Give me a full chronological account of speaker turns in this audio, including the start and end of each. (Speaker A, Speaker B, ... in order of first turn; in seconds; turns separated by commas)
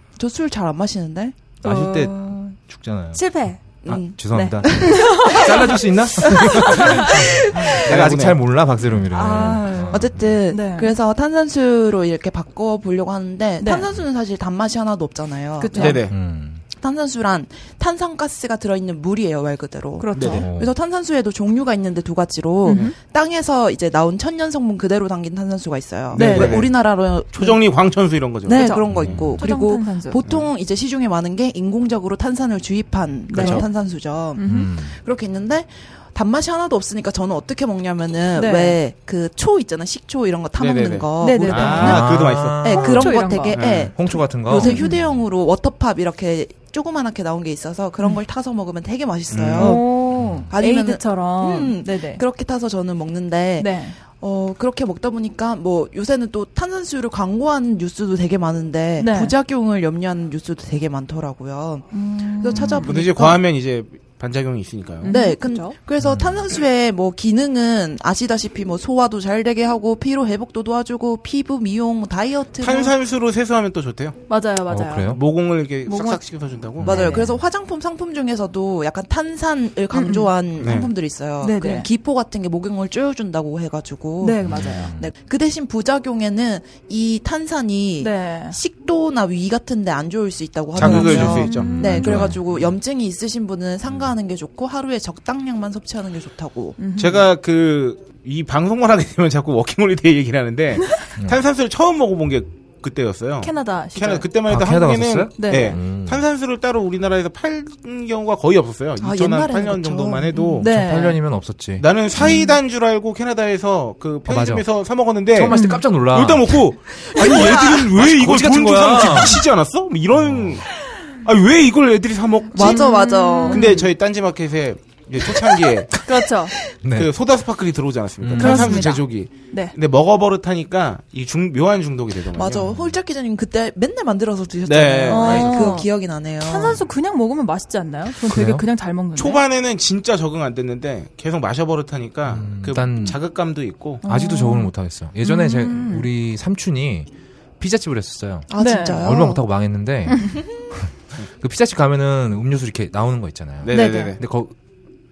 Speaker A: 0.2-1.3, Speaker B: 1.6-2.5, Speaker C: 1.6-10.4, Speaker B: 3.1-3.6, Speaker A: 3.8-5.4, Speaker B: 4.3-5.8, Speaker B: 6.8-7.3, Speaker A: 6.8-7.8, Speaker D: 7.8-8.4, Speaker B: 9.1-10.9, Speaker A: 9.9-16.1, Speaker B: 13.6-13.9, Speaker B: 15.6-16.1, Speaker D: 15.8-16.1, Speaker C: 16.0-16.6, Speaker A: 16.7-27.6, Speaker B: 20.0-20.4, Speaker D: 20.1-20.5, Speaker C: 20.2-20.7, Speaker B: 22.6-22.9, Speaker D: 26.1-26.8, Speaker B: 26.1-26.7, Speaker D: 27.3-29.3, Speaker A: 28.4-63.4, Speaker B: 28.6-28.9, Speaker C: 28.9-29.4, Speaker B: 29.4-30.2, Speaker B: 33.3-33.6, Speaker D: 33.4-33.6, Speaker B: 34.4-34.7, Speaker C: 34.4-35.0, Speaker B: 38.3-38.8, Speaker D: 40.6-42.7, Speaker B: 41.2-43.6, Speaker C: 41.3-45.0, Speaker D: 43.5-43.9, Speaker B: 44.6-45.0, Speaker D: 49.3-49.8, Speaker B: 49.6-52.2, Speaker C: 50.1-50.5, Speaker B: 53.6-54.0, Speaker B: 59.0-59.3, Speaker B: 61.9-63.1, Speaker D: 62.9-65.1, Speaker B: 65.0-65.8, Speaker A: 65.0-72.9, Speaker C: 66.0-66.5, Speaker D: 72.6-74.2, Speaker B: 74.3-75.2, Speaker C: 74.7-75.2, Speaker D: 75.1-77.0, Speaker B: 75.8-76.2, Speaker C: 76.8-77.1, Speaker A: 76.8-96.8, Speaker B: 76.8-77.3, Speaker B: 79.9-80.3, Speaker D: 80.6-80.9, Speaker B: 81.4-81.9, Speaker B: 84.2-84.9, Speaker C: 84.4-85.1, Speaker B: 88.0-88.5, Speaker D: 90.8-92.3, Speaker C: 90.8-92.7, Speaker B: 90.8-92.0, Speaker B: 96.8-97.3, Speaker D: 97.0-110.7, Speaker C: 101.2-101.4, Speaker B: 103.4-104.3, Speaker C: 104.5-106.2, Speaker B: 105.4-105.8, Speaker A: 109.0-110.6, Speaker B: 110.6-111.2, Speaker C: 110.6-112.2, Speaker D: 111.8-122.9, Speaker B: 112.2-112.6, Speaker C: 114.2-119.4, Speaker B: 115.4-115.9, Speaker C: 120.1-120.6, Speaker A: 122.5-123.8, Speaker B: 122.5-123.9, Speaker D: 123.5-126.0, Speaker B: 126.0-126.5, Speaker C: 126.8-127.1, Speaker D: 126.9-132.7, Speaker C: 128.2-128.9, Speaker B: 128.4-129.7, Speaker A: 132.3-136.8, Speaker D: 134.7-135.7, Speaker B: 135.1-135.9, Speaker B: 136.4-139.4, Speaker C: 138.3-138.6, Speaker D: 139.2-144.0, Speaker C: 142.2-143.2, Speaker B: 144.0-146.1, Speaker C: 144.0-154.5, Speaker A: 148.5-149.4, Speaker B: 148.6-149.0, Speaker D: 153.6-154.2, Speaker B: 153.7-154.2